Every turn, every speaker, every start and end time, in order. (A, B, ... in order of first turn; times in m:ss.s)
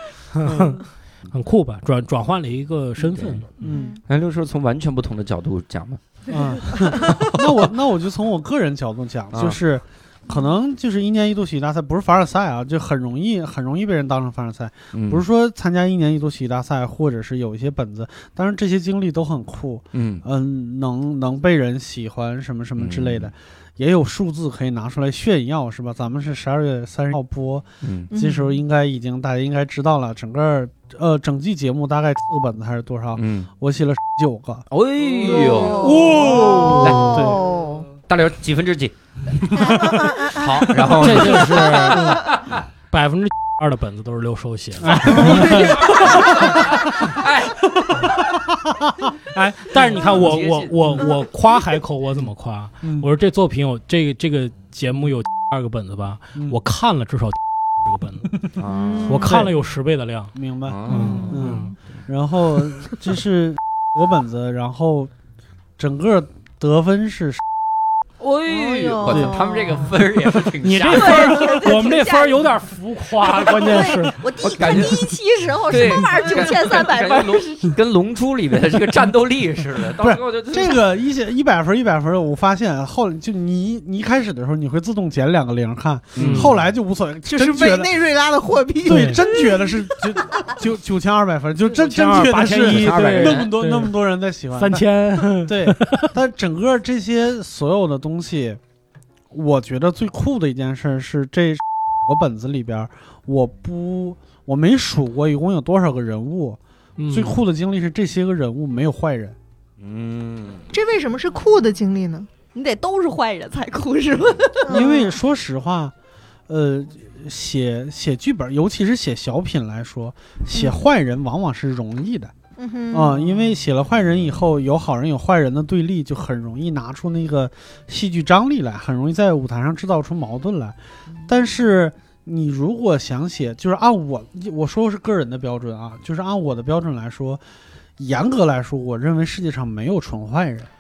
0:00.3-0:03.7 A
0:03.0-0:03.4 B
0:03.6-0:04.0 C
0:03.7-0:04.0 D
0:04.1-0:06.0 B
0:06.3-0:34.7 C
0:06.7-0:07.6 B
0:09.3-0:09.6 B
0:14.9-0:15.3 B
0:19.9-0:20.2 B
0:22.8-0:23.3 B
0:27.8-0:28.1 B
0:28.1-0:28.6 D
0:33.2-0:33.5 B
0:34.7-0:37.4 B
0:35.5-0:36.9 D
0:35.8-0:37.4 A
0:35.9-0:37.8 E
0:38.0-0:42.6 B
0:39.6-0:40.8 D
0:40.9-0:42.4 A
0:42.9-0:47.2 A
0:44.8-0:48.2 B
0:49.3-0:58.5 A
0:49.8-0:51.1 B
0:52.8-0:53.1 C
0:58.6-0:59.3 B
0:58.7-0:59.4 D
0:59.0-1:00.4 A
0:59.1-0:59.5 C
1:00.3-1:05.1 C
1:00.7-1:01.4 B
1:00.9-1:01.8 A
1:00.9-1:01.4 D
1:05.8-1:07.4 C
1:08.2-1:11.7 B
1:08.5-1:09.9 D
1:09.1-1:09.4 C
1:10.6-1:14.3 A
1:10.8-1:12.5 E
1:13.2-1:17.7 E
1:14.4-1:15.1 B
1:15.7-1:20.8 B
1:20.0-1:28.0 C
1:26.2-1:26.5 B
1:26.2-1:26.5 A
1:27.3-1:30.1 D
1:28.8-1:34.9 C
1:28.9-1:29.2 A
1:31.7-1:34.0 A
1:32.5-1:33.5 B
1:34.6-1:36.1 A
1:35.4-1:38.6 C
1:39.3-1:49.4 C
1:47.0-1:47.4 A
1:49.8-1:50.7 B
1:50.7-1:52.3 D
1:52.5-1:54.8 E
1:54.6-1:55.1 D
1:54.7-1:55.9 C
1:56.5-2:02.3 C
2:00.5-2:00.8 D
2:02.6-2:03.3 D
2:02.9-2:17.4 C
2:18.0-2:20.7 C